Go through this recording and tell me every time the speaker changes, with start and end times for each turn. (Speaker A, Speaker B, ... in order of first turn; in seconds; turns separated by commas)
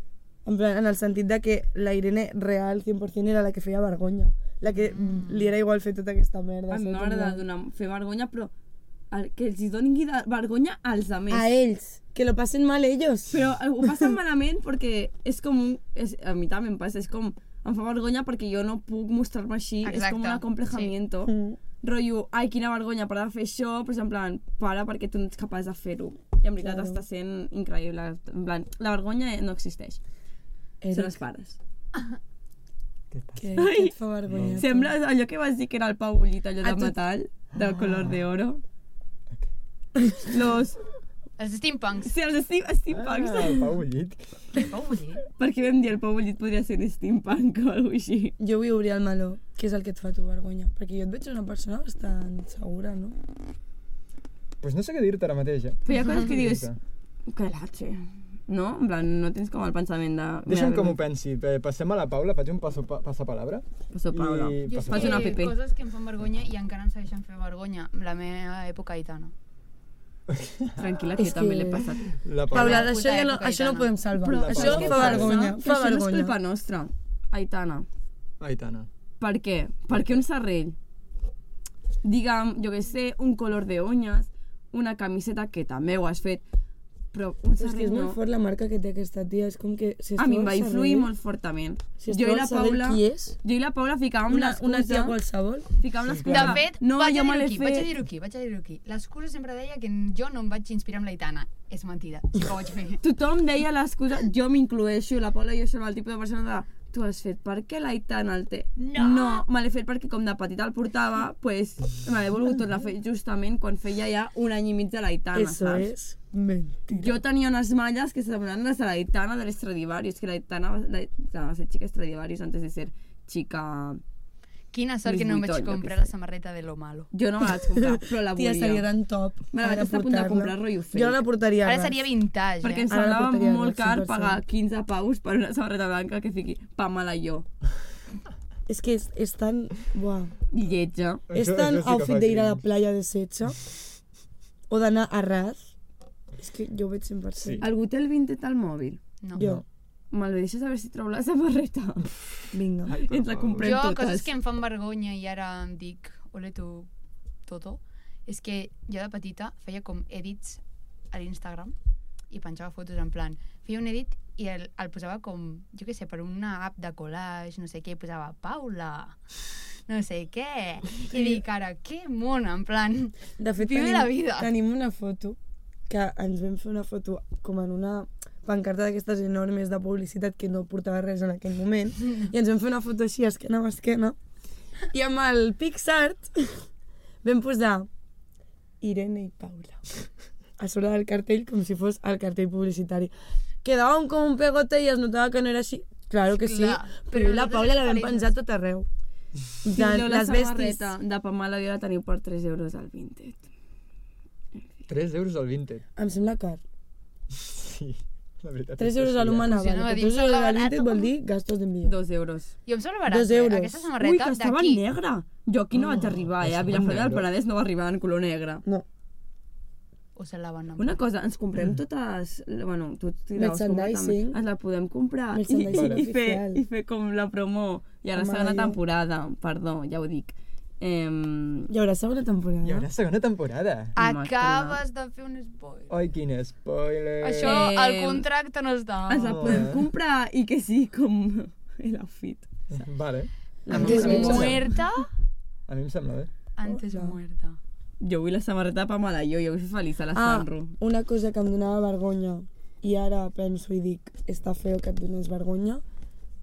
Speaker A: 0.4-7.4, Speaker B: 4.7-5.5, Speaker C: 6.7-8.5, Speaker C: 9.1-11.5, Speaker A: 11.3-13.3, Speaker C: 13.3-30.0, Speaker A: 13.8-14.1, Speaker B: 19.8-20.9, Speaker A: 21.2-21.6, Speaker A: 26.6-27.0, Speaker A: 30.8-31.2, Speaker C: 30.9-31.6, Speaker D: 33.1-33.6, Speaker A: 33.4-34.9, Speaker C: 33.5-38.6, Speaker D: 34.3-34.6, Speaker A: 36.6-36.9, Speaker D: 37.6-38.1, Speaker C: 40.2-40.8, Speaker B: 41.4-42.1, Speaker C: 42.0-43.7, Speaker D: 42.9-44.7, Speaker B: 44.5-45.2, Speaker C: 45.4-48.3, Speaker A: 48.4-53.2, Speaker D: 54.6-56.8, Speaker C: 55.9-56.7, Speaker C: 57.3-61.0, Speaker D: 60.5-65.4, Speaker C: 63.9-65.5, Speaker B: 64.6-69.3, Speaker D: 70.3-70.8, Speaker C: 70.8-72.1, Speaker A: 71.2-71.8, Speaker D: 72.1-72.9, Speaker B: 72.5-74.0, Speaker A: 72.5-76.3, Speaker C: 74.2-77.8, Speaker D: 74.2-75.4, Speaker D: 78.4-78.9, Speaker C: 79.2-80.8, Speaker D: 79.9-80.2, Speaker C: 82.0-86.4, Speaker C: 87.1-88.2, Speaker A: 87.6-91.1, Speaker C: 90.2-95.2, Speaker A: 92.0-93.4, Speaker A: 94.3-95.7, Speaker C: 95.8-97.9, Speaker D: 96.0-96.6, Speaker B: 96.2-103.0, Speaker C: 103.0-115.9, Speaker B: 108.8-109.4, Speaker A: 115.3-117.2, Speaker C: 116.9-124.0, Speaker B: 124.7-127.1, Speaker C: 125.0-126.0, Speaker C: 127.1-128.9, Speaker A: 127.7-132.0, Speaker C: 129.5-131.2, Speaker B: 131.6-132.9, Speaker C: 132.6-137.4, Speaker A: 132.9-134.4, Speaker A: 138.7-140.3, Speaker C: 140.5-141.2, Speaker D: 141.3-142.6, Speaker A: 141.3-143.6, Speaker A: 144.7-145.7, Speaker A: 146.4-147.6, Speaker D: 147.4-147.7, Speaker C: 147.6-149.0, Speaker A: 149.3-149.6, Speaker D: 149.3-149.6, Speaker C: 150.1-152.1, Speaker A: 152.5-152.9, Speaker D: 152.9-153.8, Speaker C: 153.0-154.3, Speaker B: 153.6-156.9, Speaker B: 157.5-160.6, Speaker B: 161.1-161.7, Speaker B: 162.3-169.2, Speaker B: 169.9-174.5, Speaker A: 171.1-171.4, Speaker A: 173.4-184.2, Speaker A: 184.9-186.6, Speaker A: 187.2-187.9, Speaker A: 188.8-189.8, Speaker A: 190.6-193.1, Speaker A: 193.6-198.9, Speaker B: 196.4-198.3, Speaker A: 199.6-200.9, Speaker C: 199.7-203.4, Speaker D: 204.9-205.8, Speaker A: 205.9-206.6, Speaker D: 207.3-209.5, Speaker A: 208.8-211.9, Speaker B: 209.4-211.1, Speaker C: 211.8-212.5, Speaker B: 212.7-214.8, Speaker A: 213.1-213.9, Speaker C: 214.0-218.6, Speaker D: 215.9-217.2, Speaker B: 220.2-221.0, Speaker C: 220.8-231.7, Speaker A: 223.3-224.4, Speaker A: 225.3-226.6, Speaker D: 225.7-226.0, Speaker A: 228.1-228.8, Speaker A: 231.7-232.9, Speaker D: 232.6-233.9, Speaker C: 233.9-234.8, Speaker B: 233.9-235.9, Speaker D: 235.9-237.7, Speaker B: 237.2-239.7, Speaker C: 237.4-238.2, Speaker C: 239.1-242.5, Speaker D: 239.3-239.8, Speaker D: 242.7-244.6, Speaker C: 243.7-244.7, Speaker A: 243.7-244.6, Speaker B: 243.7-245.1, Speaker D: 245.7-246.3, Speaker B: 246.6-247.6, Speaker A: 246.6-247.2, Speaker C: 248.0-250.7, Speaker A: 250.1-255.8